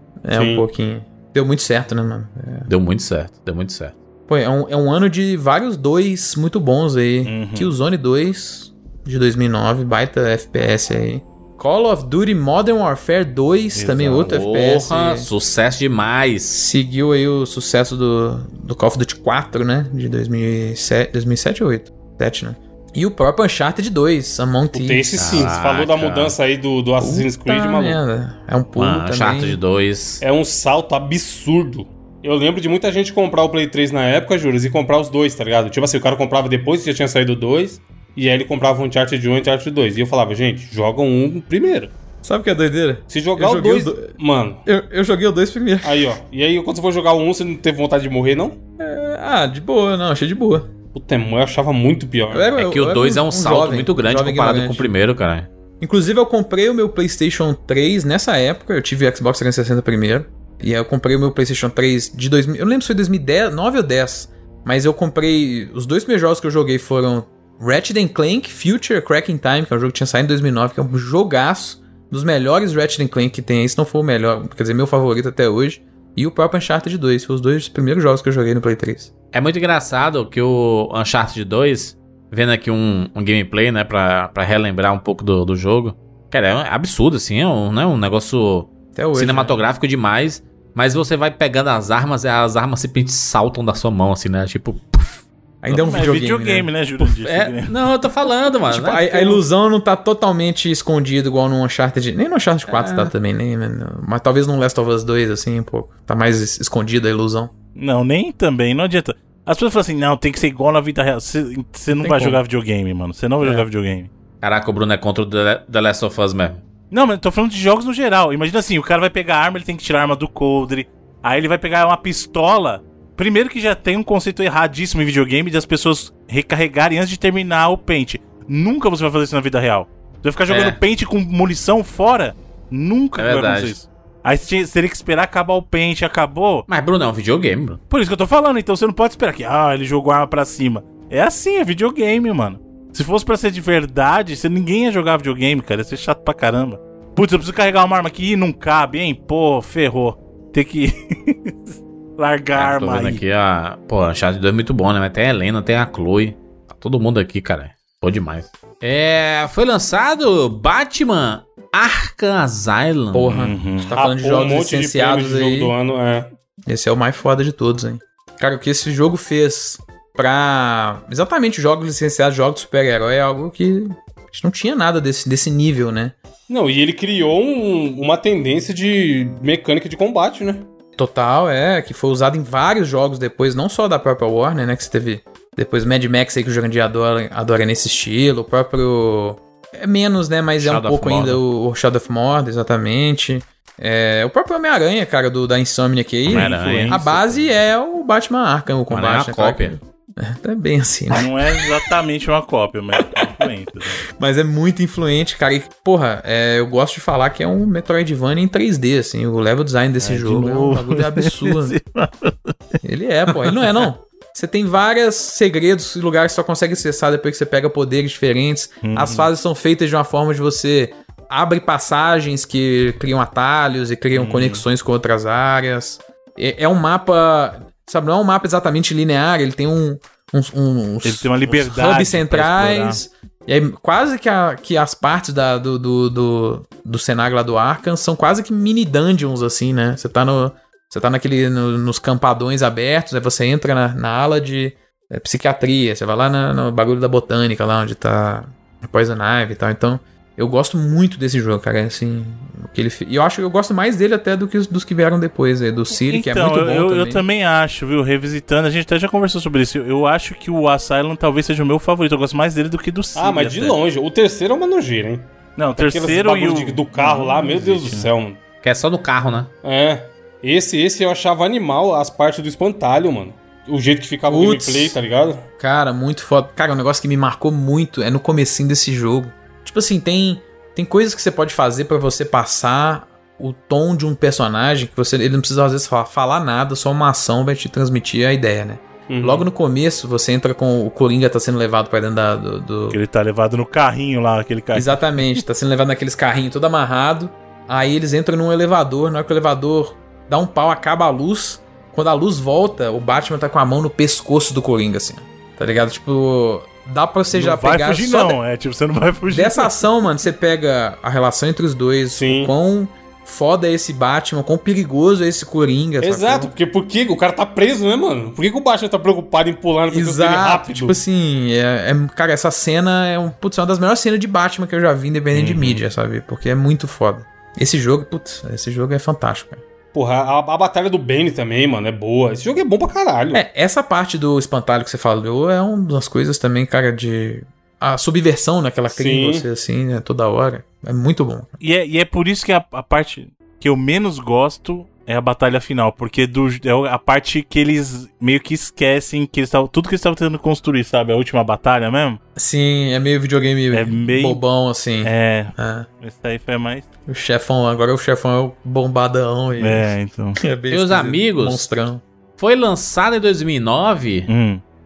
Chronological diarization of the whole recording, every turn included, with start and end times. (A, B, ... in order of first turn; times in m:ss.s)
0:00.2-0:02.7 A
0:00.3-0:00.6 B
0:02.7-0:04.0 C
0:04.3-0:15.3 A
0:07.3-0:07.7 D
0:13.8-0:14.4 D
0:14.3-0:16.6 C
0:16.6-0:25.5 A
0:24.7-0:28.0 B
0:25.2-0:26.4 C
0:27.0-0:29.6 A
0:28.8-0:30.2 C
0:30.2-0:41.9 B
0:42.2-0:44.1 A
0:43.1-0:44.6 B
0:44.7-0:46.2 A
0:45.8-0:48.6 B
0:48.8-0:50.7 A
0:50.9-0:52.5 B
0:52.3-0:54.9 A
0:52.6-0:55.5 C
0:55.8-1:19.1 A
1:19.3-1:35.2 C
1:29.0-1:29.6 A
1:35.6-1:36.7 A
1:35.7-1:37.8 D
1:37.0-1:39.4 C
1:38.7-1:47.5 A
1:42.7-1:43.1 C
1:47.8-1:54.1 D
1:52.0-1:52.4 A
1:54.4-1:56.6 C
1:56.9-2:16.6 D
2:10.5-2:10.8 C
2:13.2-2:13.8 C
2:16.7-2:17.8 C
2:17.9-2:33.2 D
2:32.5-2:43.3 C
2:43.1-2:45.7 A
2:43.3-2:43.9 D
2:44.0-2:46.3 B
2:46.7-2:56.2 A
2:56.5-3:00.7 B
3:01.0-3:21.6 A
3:10.6-3:11.4 C
3:16.3-3:17.0 C
3:16.3-3:17.5 D
3:18.9-3:19.8 C
3:21.1-3:24.0 D
3:24.0-3:31.8 A
3:30.0-3:32.8 D
3:32.8-4:17.2 A
3:38.8-3:39.3 D
3:44.1-3:44.6 D
3:51.0-3:53.0 D
4:15.9-4:23.8 D
4:23.2-4:28.4 B
4:25.6-4:28.1 D
4:28.6-4:29.5 C
4:29.6-4:35.4 B
4:34.3-4:35.0 A
4:35.6-4:53.0 A
4:49.1-4:49.4 B
4:52.9-4:55.4 D
4:54.7-5:08.4 A
5:07.3-5:09.7 D
5:09.3-5:16.5 A
5:12.1-5:12.5 B
5:16.0-5:21.0 B
5:19.9-5:29.6 A
5:25.4-5:25.7 C
5:29.9-5:33.4 B
5:33.3-5:41.6 A
5:38.9-5:39.5 B
5:41.6-5:52.2 D
5:52.4-5:55.9 A
5:53.7-5:54.4 D
5:55.0-5:56.9 D
5:57.1-6:02.0 A
5:59.6-6:00.4 D
6:00.7-6:01.7 C
6:02.4-6:04.3 C
6:04.3-6:04.6 D